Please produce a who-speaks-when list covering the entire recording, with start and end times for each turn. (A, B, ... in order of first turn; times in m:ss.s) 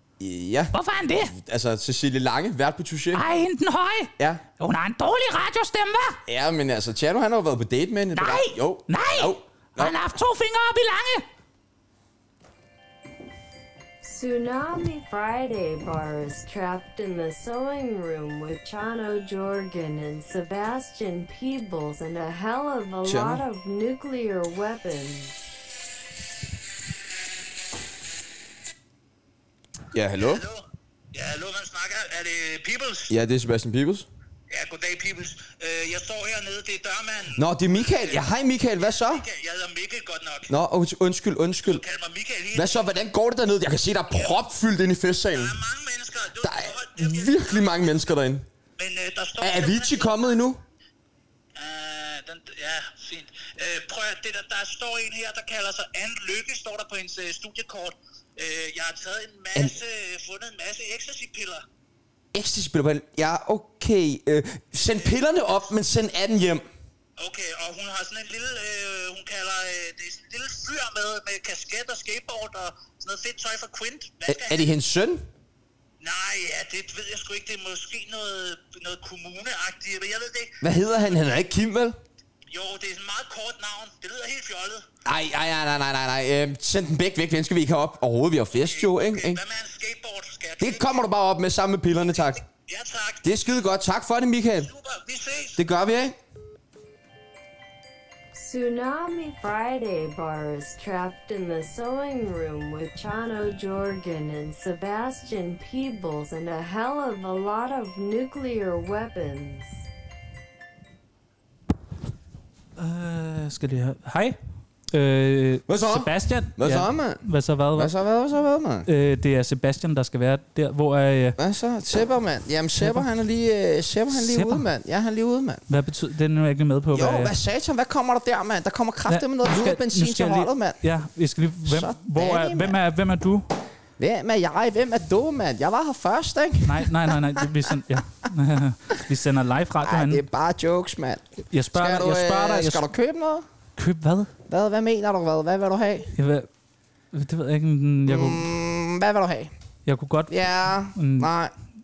0:00.2-0:03.2 A
0:00.7-0:01.3 B
0:03.1-0:06.2 B
0:06.3-0:09.9 A
0:08.1-0:11.2 B
0:14.0-0:25.4 C
0:23.0-0:23.4 A
0:29.9-0:30.4 A
0:30.2-0:33.1 D
0:33.1-0:34.1 A
0:34.5-0:40.6 D
0:37.4-0:39.2 A
0:40.5-0:41.8 A
0:41.6-0:42.9 D
0:42.5-0:45.6 A
0:44.1-0:44.4 D
0:45.3-0:47.9 D
0:46.4-0:48.4 A
0:48.8-0:50.1 D
0:49.4-0:50.6 A
0:51.6-1:01.6 D
1:02.3-1:06.6 A
1:07.2-1:14.7 D
1:14.3-1:15.2 A
1:16.0-1:20.6 D
1:20.6-1:22.0 A
1:22.5-1:24.8 D
1:25.0-1:29.4 A
1:28.5-1:31.0 D
1:30.6-1:32.4 A
1:32.2-1:33.3 D
1:33.2-1:34.7 A
1:34.6-1:35.6 D
1:35.6-1:36.2 A
1:38.3-1:49.8 C
1:52.8-1:54.4 E
1:54.9-1:57.9 E
1:55.7-1:57.2 A
1:57.7-1:58.9 A
1:58.8-2:01.4 E
2:01.4-2:05.6 A
2:02.8-2:03.0 E
2:04.1-2:04.6 E
2:05.7-2:07.3 E
2:06.9-2:10.8 A
2:09.1-2:13.5 E
2:11.7-2:12.8 A
2:14.0-2:17.2 A
2:16.6-2:20.2 E
2:19.8-2:23.4 A
2:21.5-2:22.8 E
2:23.8-2:24.3 E
2:24.5-2:26.1 A
2:26.1-2:26.5 E
2:27.1-2:28.4 E
2:28.1-2:29.5 A
2:29.8-2:30.3 E
2:30.3-2:31.5 A
2:30.9-2:31.3 E